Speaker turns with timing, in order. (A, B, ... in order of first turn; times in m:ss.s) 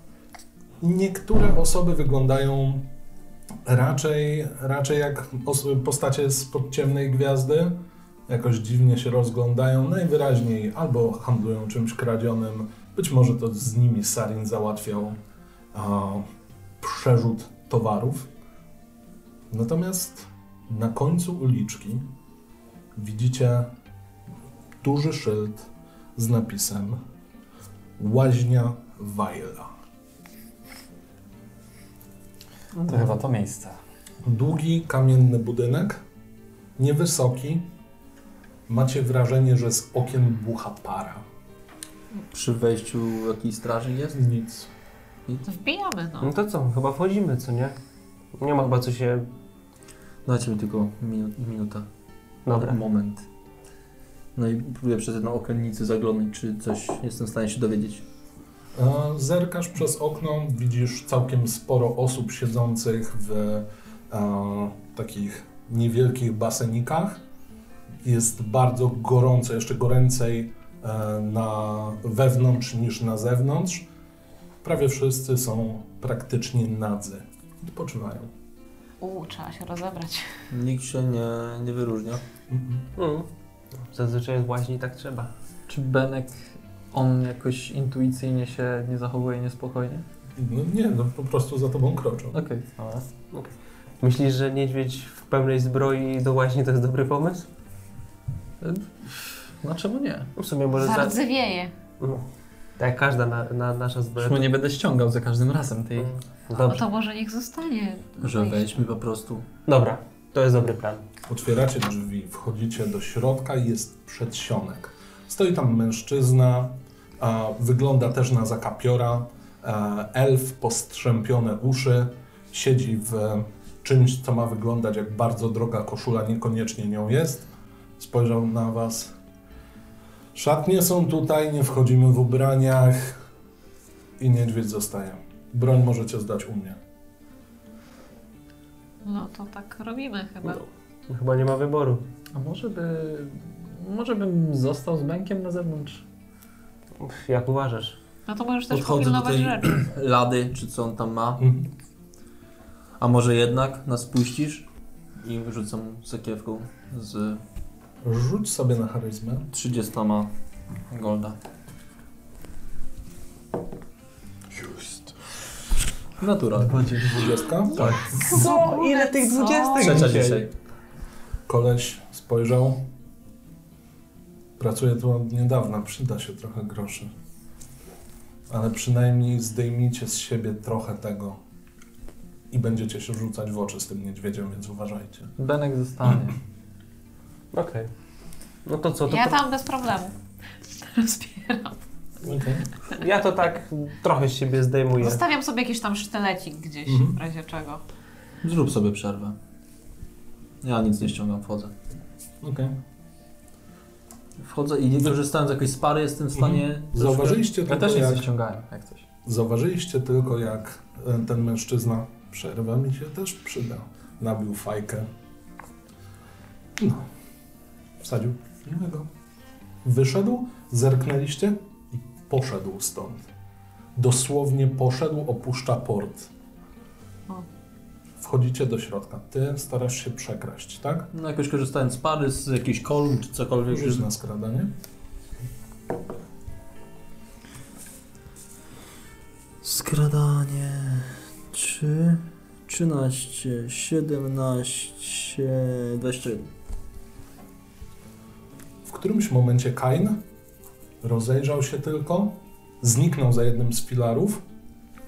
0:00.8-0:02.8 A
0:03.6-0:07.7 A
0:08.3-0:15.2 A
0:15.7-0:16.2 A
0:16.8-0:18.3 A
0:19.5-0:22.0 A
0:22.9-0:23.7 A
0:24.8-0:27.0 A
0:28.0-0:29.7 A
0:32.7-0:33.1 B
0:32.8-0:33.8 C
0:34.2-0:36.0 A
0:36.8-0:37.6 A
0:38.7-0:41.2 A
0:42.1-0:44.2 B
0:44.1-0:44.7 A
0:45.4-0:46.3 D
0:46.2-0:47.8 E
0:48.4-0:49.3 E
0:50.2-0:51.8 B
0:52.4-0:52.8 E
0:52.5-0:53.2 B
0:54.3-0:58.0 B
0:58.7-1:07.2 A
1:08.0-1:13.8 A
1:14.6-1:18.3 A
1:19.0-1:20.3 D
1:20.5-1:22.2 B
1:22.5-1:22.8 A
1:23.0-1:23.3 E
1:23.8-1:25.3 E
1:25.7-1:30.0 C
1:30.4-1:32.4 A
1:32.3-1:33.0 C
1:33.3-1:37.5 E
1:38.6-1:40.3 C
1:40.4-1:41.2 E
1:40.8-1:41.7 D
1:42.8-1:44.5 E
1:44.2-1:46.2 C
1:46.0-1:46.8 E
1:46.5-1:48.8 D
1:48.2-1:49.4 B
1:49.6-1:51.0 E
1:51.3-2:09.1 A
2:10.3-2:13.2 A
2:14.2-2:16.8 A
2:19.0-2:20.6 D
2:21.1-2:22.0 E
2:22.3-2:26.0 C
2:27.0-2:28.0 E
2:28.3-2:29.8 D
2:28.7-2:31.4 B
2:31.4-2:31.7 A
2:33.0-2:34.6 B
2:35.2-2:37.4 B
2:38.0-2:39.5 A
2:39.5-2:40.3 B
2:40.9-2:41.4 B
2:46.2-2:46.9 B
2:46.7-2:47.3 C
2:47.1-2:48.2 A
2:47.8-2:50.5 E
2:48.0-2:50.1 D
2:49.8-2:50.5 B
2:51.5-2:52.8 A
2:54.6-2:57.1 A
2:58.5-3:01.4 A
3:02.5-3:05.3 A
3:05.4-3:06.4 C
3:07.5-3:07.9 E
3:08.6-3:09.4 E
3:09.1-3:10.1 D
3:10.8-3:11.7 D
3:12.2-3:12.7 A
3:12.9-3:15.2 E
3:15.0-3:17.8 D
3:16.8-3:17.2 A
3:18.4-3:19.4 B
3:20.6-3:21.7 B
3:22.4-3:22.7 A
3:24.4-3:27.5 B
3:26.3-3:28.3 A
3:27.6-3:29.0 C
3:29.2-3:35.1 A
3:36.8-3:37.1 A
3:38.0-3:39.1 A
3:39.8-3:43.3 A
3:43.9-3:46.3 A
3:48.2-3:51.1 A
3:51.1-3:54.0 B
3:53.7-3:54.7 A
3:59.6-4:06.5 B
4:08.8-4:10.2 A
4:11.0-4:14.4 A